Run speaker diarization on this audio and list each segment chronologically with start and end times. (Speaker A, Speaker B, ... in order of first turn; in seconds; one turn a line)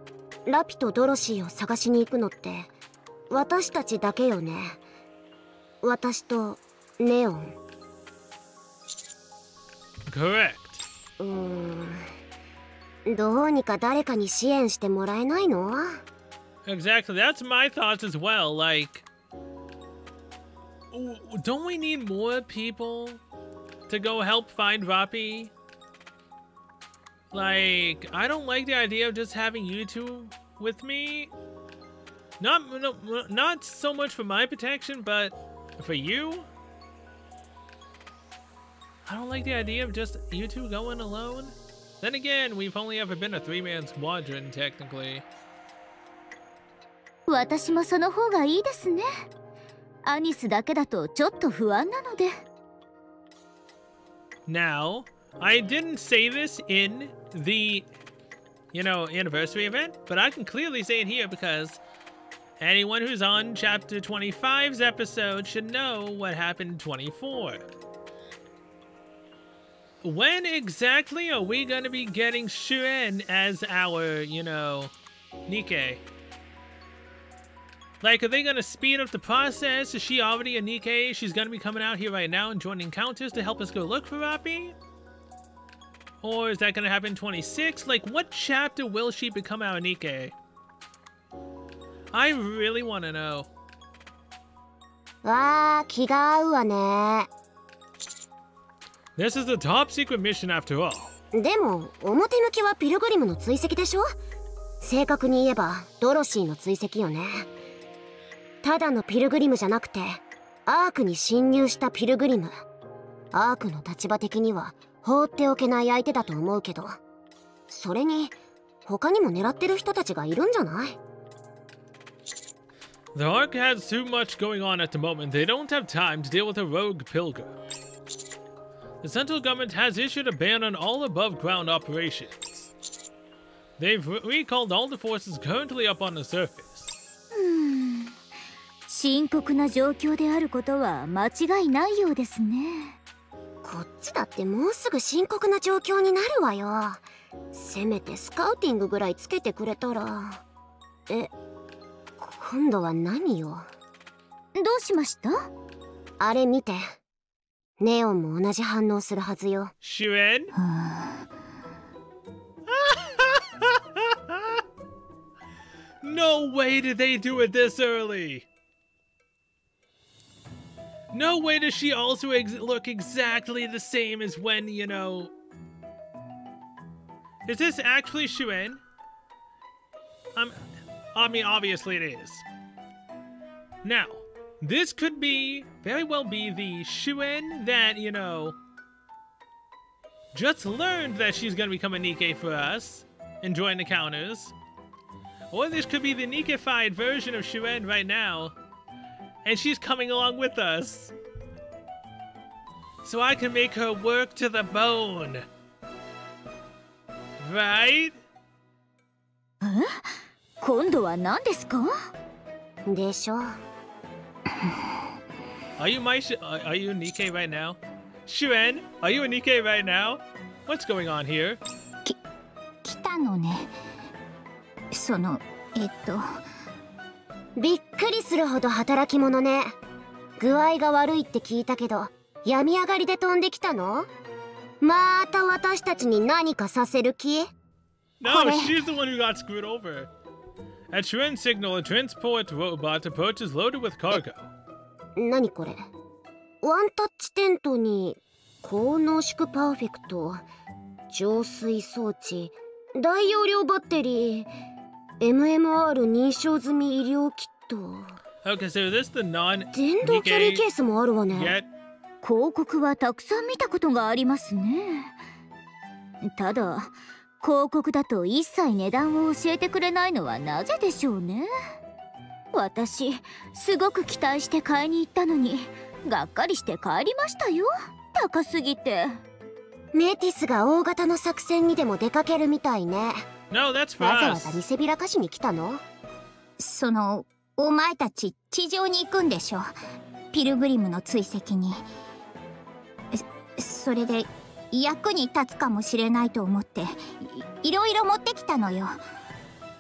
Speaker A: 0.5-2.7
Speaker A: 3.3-4.8
Speaker A: 5.8-7.6
Speaker B: 10.1-10.8
Speaker A: 11.2-12.0
Speaker A: 13.1-16.0
Speaker B: 16.7-19.1
Speaker B: 20.9-23.2
Speaker B: 23.9-25.5
Speaker B: 27.3-31.3
Speaker B: 32.4-36.5
Speaker B: 39.1-45.2
Speaker C: 47.3-49.1
Speaker C: 50.1-52.4
Speaker B: 54.5-57.9
Speaker B: 58.7-61.8
Speaker B: 62.6-67.7
Speaker B: 70.0-74.9
Speaker B: 75.5-76.0
Speaker B: 78.0-84.8
Speaker B: 86.2-90.3
Speaker B: 92.1-93.5
Speaker A: 95.2-97.3
Speaker B: 99.2-101.1
Speaker A: 101.3-104.1
Speaker A: 104.8-107.5
Speaker A: 108.6-112.6
Speaker A: 113.3-117.0
Speaker A: 117.7-121.0
Speaker B: 123.2-127.6
Speaker B: 129.0-132.7
Speaker B: 133.8-136.9
Speaker C: 137.3-138.2
Speaker C: 138.9-143.0
Speaker A: 143.6-150.4
Speaker A: 152.2-153.7
Speaker C: 154.6-155.5
Speaker A: 156.2-156.9
Speaker A: 157.8-159.7
Speaker B: 159.8-160.5
Speaker D: 160.6-161.3
Speaker B: 162.7-164.4
Speaker B: 166.0-168.5
Speaker B: 171.1-175.3
Speaker B: 177.5-178.8
Speaker B: 180.3-182.4
Speaker B: 183.8-188.6
Speaker B: 190.3-194.6
Speaker B: 195.5-198.6
Speaker B: 199.4-201.1
Speaker B: 203.0-205.4
Speaker B: 207.4-208.2
Speaker C: 209.6-212.1
Speaker A: 212.9-213.6
Speaker B: 215.8-221.6
Speaker D: 222.8-223.8
Speaker D: 224.9-226.4
Speaker A: 227.6-229.8
Speaker A: 230.4-234.1
Speaker A: 234.8-237.5
Speaker B: 238.2-240.1
Speaker D: 238.2-238.7
Speaker B: 240.9-244.5
Speaker A: 245.2-245.9
Speaker A: 246.6-250.4
Speaker A: 251.1-254.5
Speaker A: 255.2-258.2
Speaker B: 258.4-260.7
Speaker A: 259.7-261.6
Speaker B: 261.3-261.7
Speaker C: 262.2-265.1
Speaker C: 266.2-266.9
Speaker C: 267.4-271.5
Speaker C: 272.5-279.2
Speaker A: 279.9-283.3
Speaker B: 283.5-284.6
Speaker A: 284.0-285.8
Speaker D: 286.6-289.7
Speaker D: 290.3-291.9
Speaker D: 293.1-299.0